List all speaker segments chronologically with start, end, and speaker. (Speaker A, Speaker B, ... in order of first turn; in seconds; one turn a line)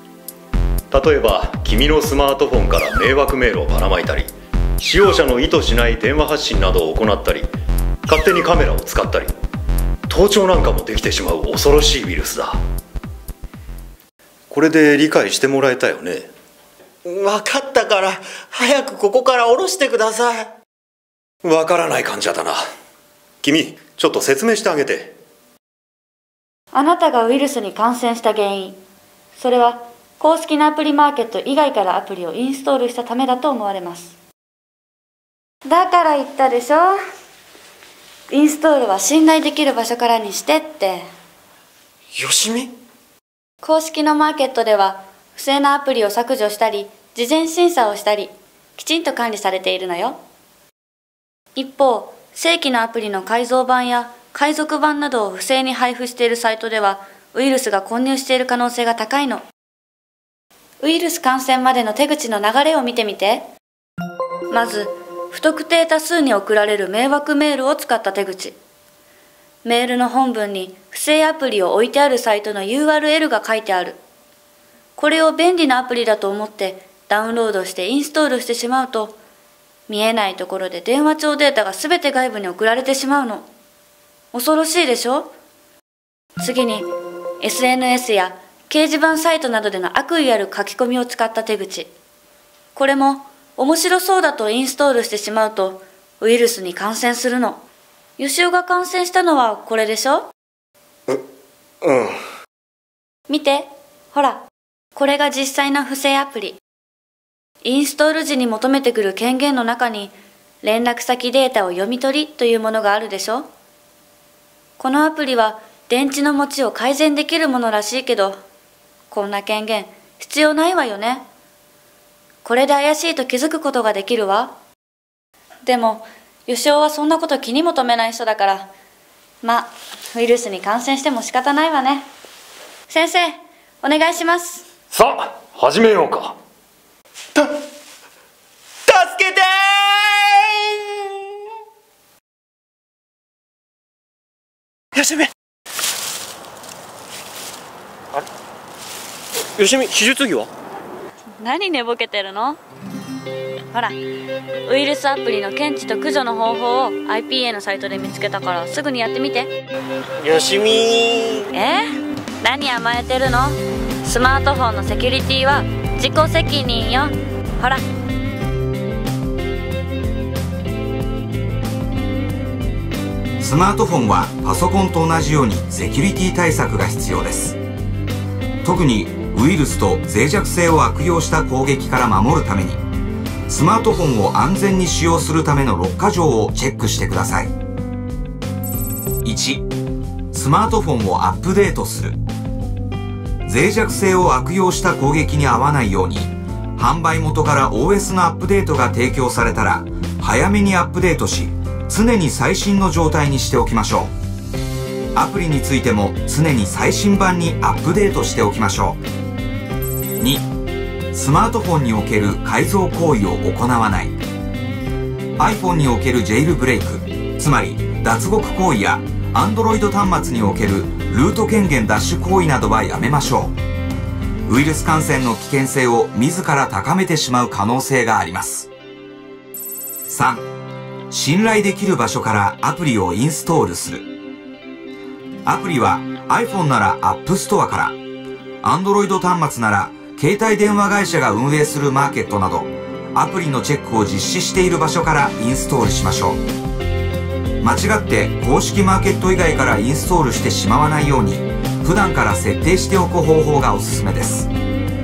Speaker A: 0.9-7.5
Speaker A: 8.1-9.3
Speaker A: 10.1-12.6
Speaker A: 14.5-16.3
Speaker B: 17.0-20.5
Speaker A: 21.4-22.6
Speaker A: 23.4-25.2
Speaker C: 26.7-28.8
Speaker C: 29.4-34.1
Speaker C: 35.6-37.0
Speaker C: 38.3-41.1
Speaker B: 42.1-42.7
Speaker C: 43.6-50.2
Speaker C: 51.5-59.4
Speaker C: 60.8-63.5
Speaker C: 64.5-68.6
Speaker C: 69.6-74.0
Speaker C: 75.0-79.2
Speaker C: 79.9-83.5
Speaker C: 84.3-85.3
Speaker C: 86.4-91.9
Speaker C: 92.7-97.6
Speaker C: 98.2-100.3
Speaker B: 101.8-102.2
Speaker C: 103.3-104.4
Speaker C: 104.9-106.6
Speaker C: 107.6-113.5
Speaker C: 114.8-118.4
Speaker C: 119.1-121.2
Speaker C: 122.4-124.5
Speaker C: 125.6-128.7
Speaker C: 129.4-132.1
Speaker C: 132.9-134.6
Speaker A: 134.9-136.4
Speaker B: 138.9-141.1
Speaker B: 144.9-145.3
Speaker B: 149.6-150.5
Speaker C: 151.4-152.6
Speaker C: 153.7-154.0
Speaker C: 154.6-159.5
Speaker B: 160.2-161.5
Speaker C: 161.5-167.8
Speaker D: 173.4-177.6
Speaker D: 178.6-182.8
Speaker D: 183.5-187.5
Speaker D: 189.2-189.7
Speaker D: 190.3-192.2
Speaker D: 193.4-204.1
Speaker D: 205.1-209.0
Speaker D: 210.2-210.5
Speaker D: 211.1-214.2
Speaker D: 215.4-223.6
Speaker D: 224.5-228.7
Speaker D: 230.1-230.5
Speaker D: 231.1-234.1
Speaker D: 235.4-238.0
Speaker D: 238.6-246.4
Speaker D: 247.6-254.5